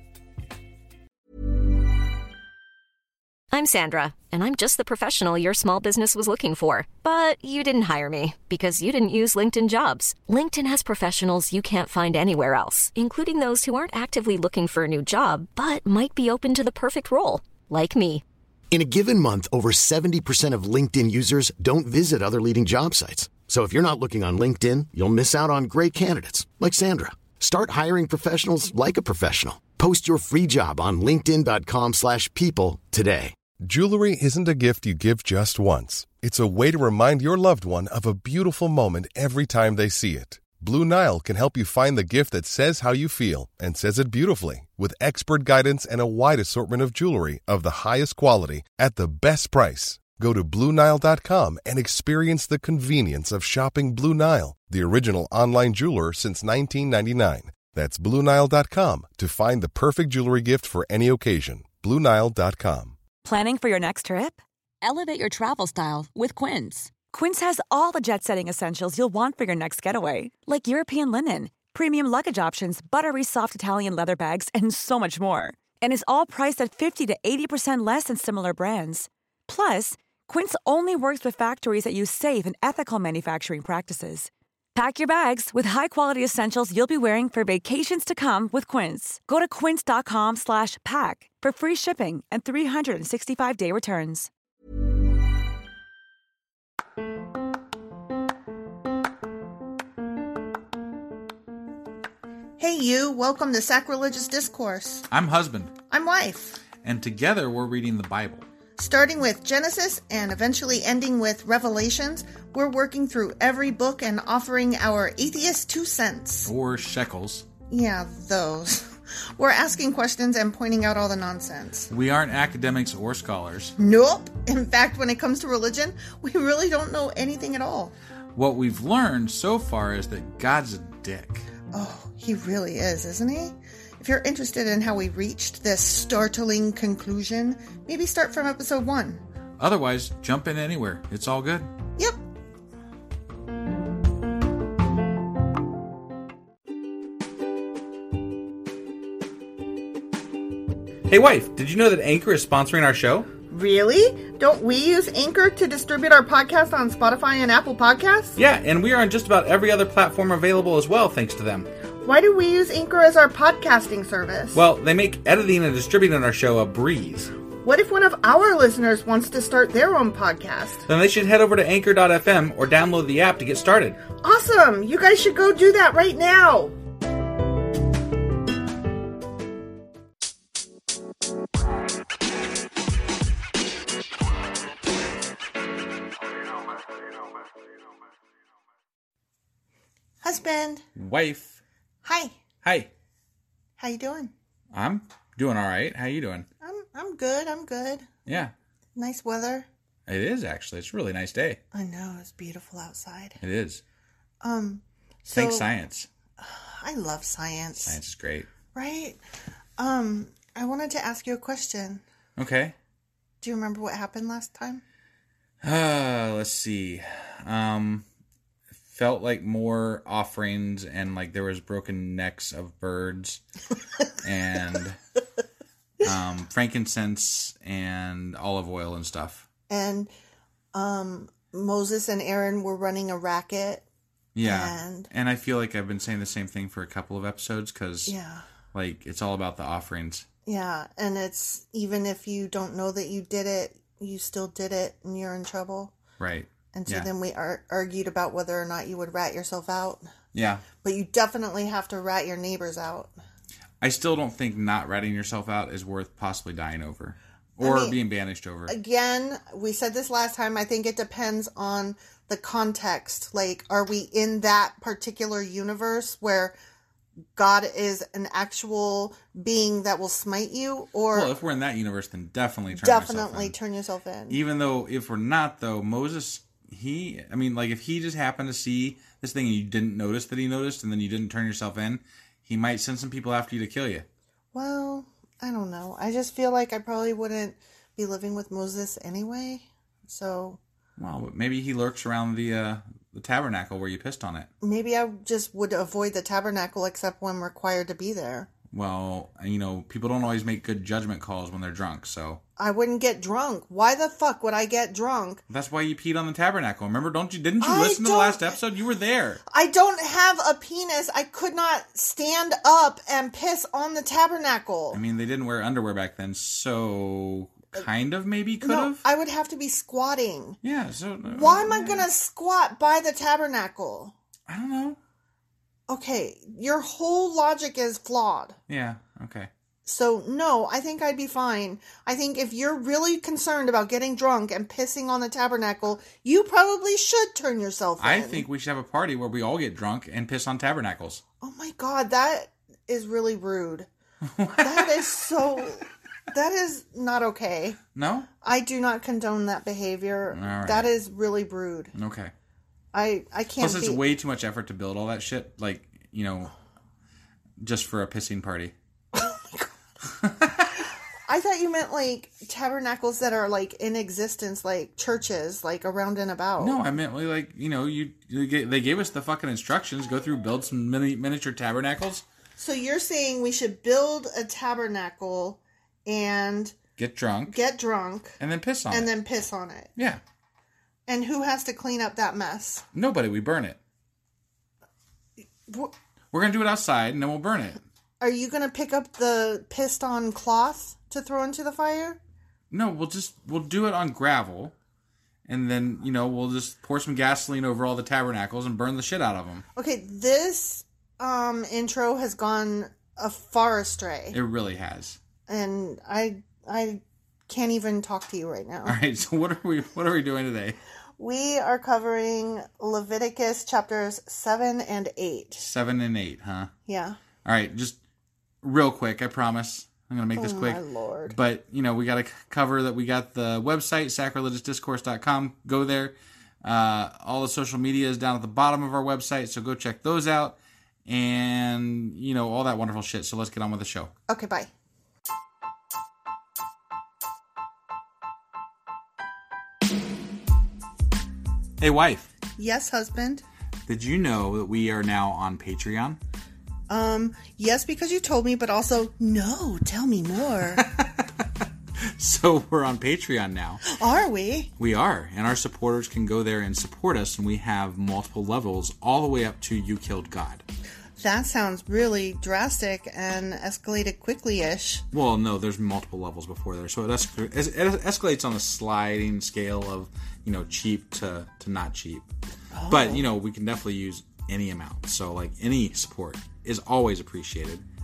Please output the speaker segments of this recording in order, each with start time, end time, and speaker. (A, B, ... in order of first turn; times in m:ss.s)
0:03.5-0:18.2 A
0:18.7-0:33.4 B
0:33.6-1:03.0 C
1:03.2-1:34.3 D
1:42.6-1:45.1 E
1:45.1-1:45.7 F
1:45.9-1:46.6 E
1:46.8-1:48.4 F
1:48.8-1:56.5 E
1:56.5-1:57.5 F
1:57.7-2:01.9 E
2:01.9-2:03.8 F
2:03.8-2:07.9 E
2:08.4-2:11.5 F
2:11.7-2:19.2 E
2:19.6-2:21.7 F
2:31.1-2:33.3 F
2:33.5-2:38.4 E
2:38.4-2:41.7 F
2:42.0-2:44.6 E
2:44.5-2:47.3 F
2:47.6-2:50.8 E
2:50.9-2:54.0 F
2:54.2-2:56.8 E
3:10.2-3:10.8 E
3:11.0-3:11.6 F
3:12.0-3:12.3 E
3:12.6-3:12.9 F
3:13.8-3:14.3 E
3:14.7-3:16.5 F
3:16.6-3:18.1 E
3:18.3-3:18.5 F
3:19.0-3:19.7 E
3:20.1-3:21.6 F
3:21.7-3:23.4 E
3:23.4-3:23.8 F
3:24.4-3:25.7 E
3:25.3-3:26.1 F
3:26.4-3:28.0 E
3:27.8-3:28.5 F
3:28.7-3:29.2 E
3:29.8-3:32.0 E
3:32.4-3:32.8 F
3:33.4-3:34.8 E
3:35.6-3:38.0 F
3:38.9-3:43.4 F
3:44.2-3:45.0 F
3:46.0-3:49.5 F
3:49.7-3:50.1 E
3:50.7-3:53.8 E
3:54.4-3:58.1 F
3:54.4-3:55.1 E
3:58.1-3:58.4 E
3:58.7-4:00.3 F
4:00.5-4:05.9 E
4:06.2-4:07.1 F
4:06.7-4:10.1 E
4:10.3-4:10.6 F
4:10.8-4:13.1 E
4:13.8-4:18.8 F
4:17.6-4:18.0 E
4:18.7-4:26.6 E
4:27.4-4:31.3 E
4:31.1-4:33.6 F
4:32.7-4:34.4 E
4:34.3-4:44.1 F
4:44.5-4:50.6 E
4:51.0-4:54.5 F
4:54.6-4:58.5 E
4:58.7-5:02.4 F
5:02.6-5:05.4 E
5:05.5-5:09.4 F
5:07.6-5:08.6 E
5:09.5-5:15.0 E
5:14.9-5:19.0 F
5:18.6-5:20.6 E
5:20.6-5:22.1 F
5:21.3-5:24.1 E
5:24.5-5:25.0 F
5:25.9-5:28.6 E
5:28.7-5:29.5 F
5:29.9-5:38.5 E
5:38.0-5:41.2 F
5:41.4-5:43.9 E
5:44.2-5:45.1 F
5:44.6-5:47.8 E
5:48.0-5:48.3 F
5:48.4-5:51.9 E
5:50.3-5:50.9 F
5:52.0-5:52.3 F
5:52.9-5:54.0 E
5:53.6-5:56.5 F
5:57.6-5:58.7 F
5:59.2-5:59.7 E
6:00.1-6:00.8 F
6:01.3-6:06.8 E
6:06.6-6:12.2 F
6:12.6-6:16.8 E
6:17.0-6:17.6 F
6:17.5-6:18.4 E
6:18.4-6:19.1 F
6:18.9-6:19.9 E
6:21.1-6:22.8 E
6:22.9-6:23.8 F
6:25.7-6:25.9 E
6:26.3-6:27.8 F
6:28.2-6:32.2 E
6:32.7-6:34.7 F
6:35.5-6:39.6 F
6:39.8-6:44.4 E
6:44.3-6:45.2 F
6:45.5-6:49.0 E
6:48.9-6:50.8 F
6:51.2-6:55.7 E
6:55.6-6:56.7 F
6:56.9-6:57.2 E
6:57.4-6:58.0 F
6:58.6-7:14.1 F
7:00.4-7:01.4 E
7:14.3-7:14.7 E
7:21.8-7:22.3 F
7:22.6-7:23.4 E
7:23.9-7:26.2 F
7:26.9-7:30.8 E
7:30.7-7:33.8 F
7:33.9-7:34.7 E
7:34.8-7:40.6 F
7:41.2-7:45.0 E
7:45.1-7:52.3 F
7:52.7-7:53.2 E
7:52.9-7:57.8 F